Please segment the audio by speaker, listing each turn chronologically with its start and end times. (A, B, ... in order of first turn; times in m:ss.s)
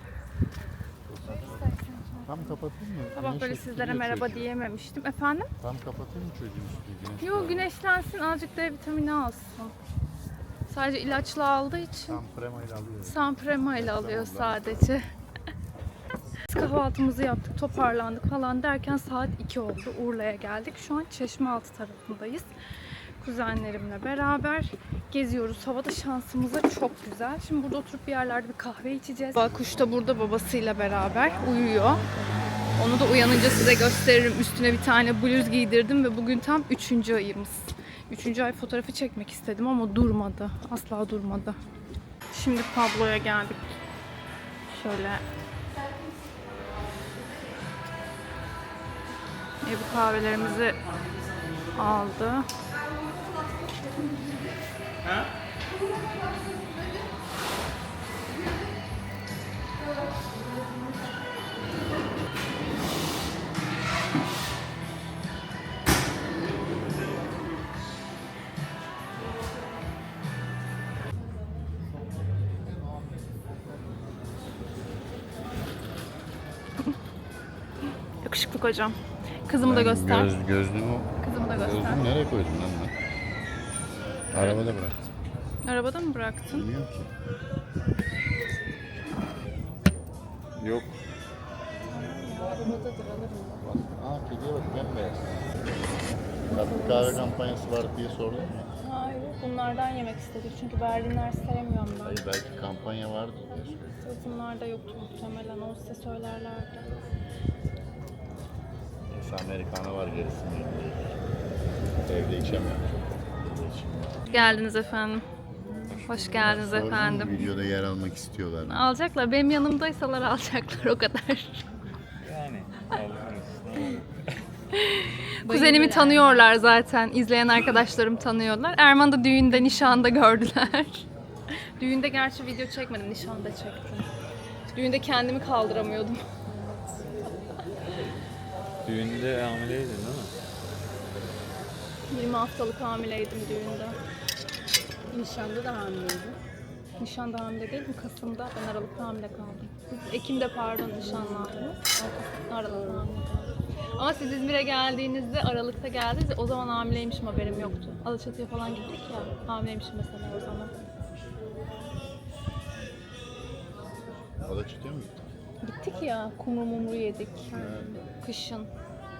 0:01.2-0:02.5 A
0:02.2-0:04.5 B
0:03.1-0:05.5 A
0:05.6-0:07.7 B
0:07.2-0:09.7 A
0:10.7-0:12.2 A
0:12.1-0:14.8 B
0:13.0-0:15.0 A
0:16.5-0:22.5 A
0:23.2-0:32.0 A
0:29.4-0:30.0 B
0:32.8-0:41.6 A
0:42.3-0:43.7 A
0:44.7-0:45.2 A
0:49.6-0:50.8 A
0:51.7-0:52.5 A
1:18.2-1:20.3 A
1:19.6-1:22.9 B
1:21.2-1:22.1 A
1:24.3-1:25.0 B
1:25.6-1:26.6 A
1:26.5-1:27.1 B
1:30.6-1:30.9 B
1:31.9-1:33.3 A
1:32.5-1:33.6 C
1:33.6-1:35.4 B
1:36.5-1:38.7 B
1:36.5-1:37.2 C
1:38.8-1:42.2 A
1:42.0-1:43.9 B
1:43.5-1:46.9 A
1:49.1-1:51.2 B
1:52.0-1:54.2 B
1:54.3-1:55.2 A
1:56.0-1:57.4 A
1:56.4-1:58.8 B
1:58.7-2:01.6 A
2:02.2-2:04.2 D
2:04.7-2:14.1 A
2:05.4-2:06.4 C
2:14.7-2:16.2 A
2:16.6-2:17.2 C
2:18.8-2:20.3 D
2:22.1-2:24.0 A
2:25.1-2:26.4 C
2:27.0-2:40.7 A
2:32.7-2:33.1 C
2:44.4-2:45.2 B
2:45.6-2:48.7 A
2:47.5-2:47.9 B
2:47.6-2:47.9 C